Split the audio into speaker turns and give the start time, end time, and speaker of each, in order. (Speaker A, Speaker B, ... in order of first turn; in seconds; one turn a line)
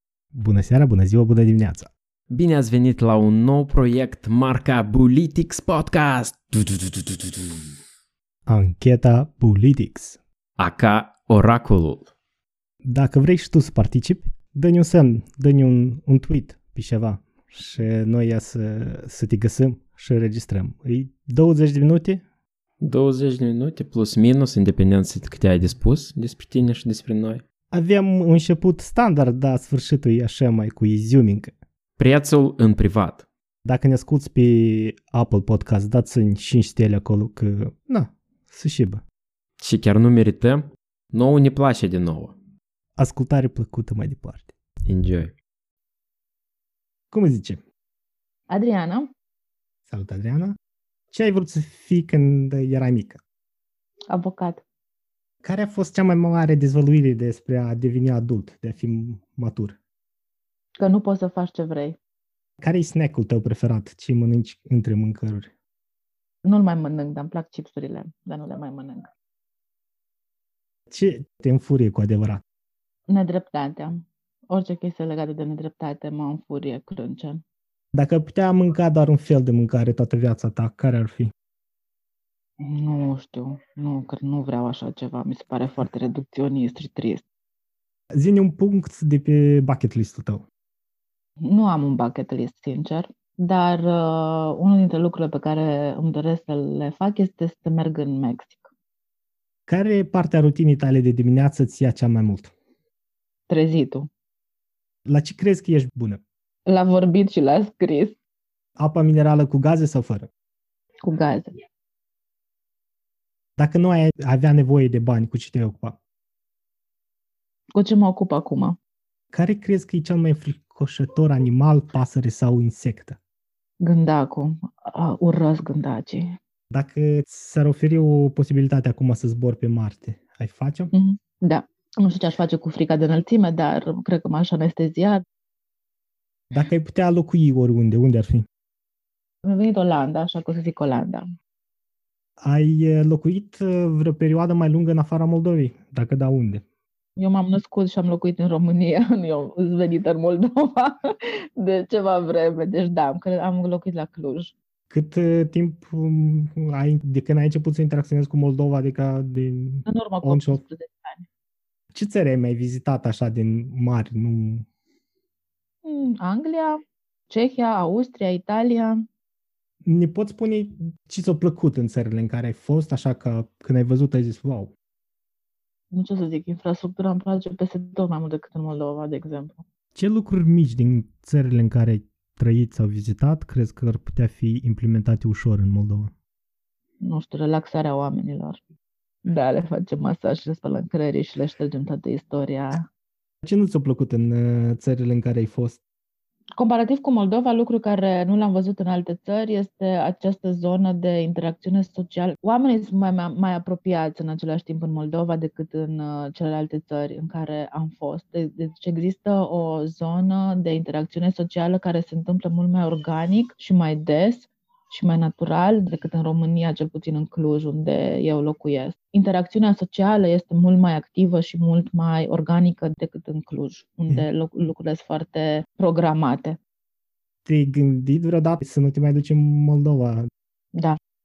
Speaker A: 0.3-1.9
Speaker B: 2.3-7.5
Speaker A: 8.4-10.2
Speaker B: 10.6-12.1
Speaker A: 12.8-22.2
Speaker B: 22.8-27.4
Speaker A: 27.7-31.5
Speaker B: 32.0-33.2
Speaker A: 33.6-39.0
Speaker B: 39.6-42.3
Speaker A: 43.0-44.5
Speaker B: 44.9-45.3
Speaker A: 47.1-47.6
Speaker C: 48.5-49.1
Speaker A: 49.9-50.6
Speaker A: 51.1-53.2
Speaker C: 54.1-54.6
Speaker A: 55.4-59.8
Speaker C: 60.8-62.0
Speaker A: 62.6-65.5
Speaker C: 66.4-69.1
Speaker A: 70.9-72.4
Speaker C: 73.1-77.4
Speaker A: 77.9-81.3
Speaker C: 82.6-87.2
Speaker A: 88.1-90.4
Speaker C: 91.4-98.7
Speaker A: 99.7-102.5
Speaker C: 103.5-104.1
Speaker A: 105.1-106.2
Speaker C: 106.7-108.2
Speaker A: 108.8-110.3
Speaker C: 111.0-111.5
Speaker A: 113.6-116.0
Speaker C: 117.7-118.8
Speaker A: 119.3-123.2
Speaker C: 123.8-126.3
Speaker A: 126.7-130.9
Speaker C: 130.9-135.2
Speaker A: 136.5-138.4
Speaker C: 139.4-141.2
Speaker A: 142.4-146.6
Speaker C: 147.2-154.5
Speaker A: 154.9-160.6
Speaker C: 159.8-161.2
Speaker A: 161.9-164.7
Speaker C: 165.8-166.8
Speaker C: 167.3-169.0
Speaker A: 169.8-174.7
Speaker C: 175.9-179.6
Speaker A: 179.9-186.1
Speaker C: 187.0-188.6
Speaker C: 189.2-192.8
Speaker A: 193.4-195.8
Speaker C: 196.6-226.6
Speaker A: 227.4-230.2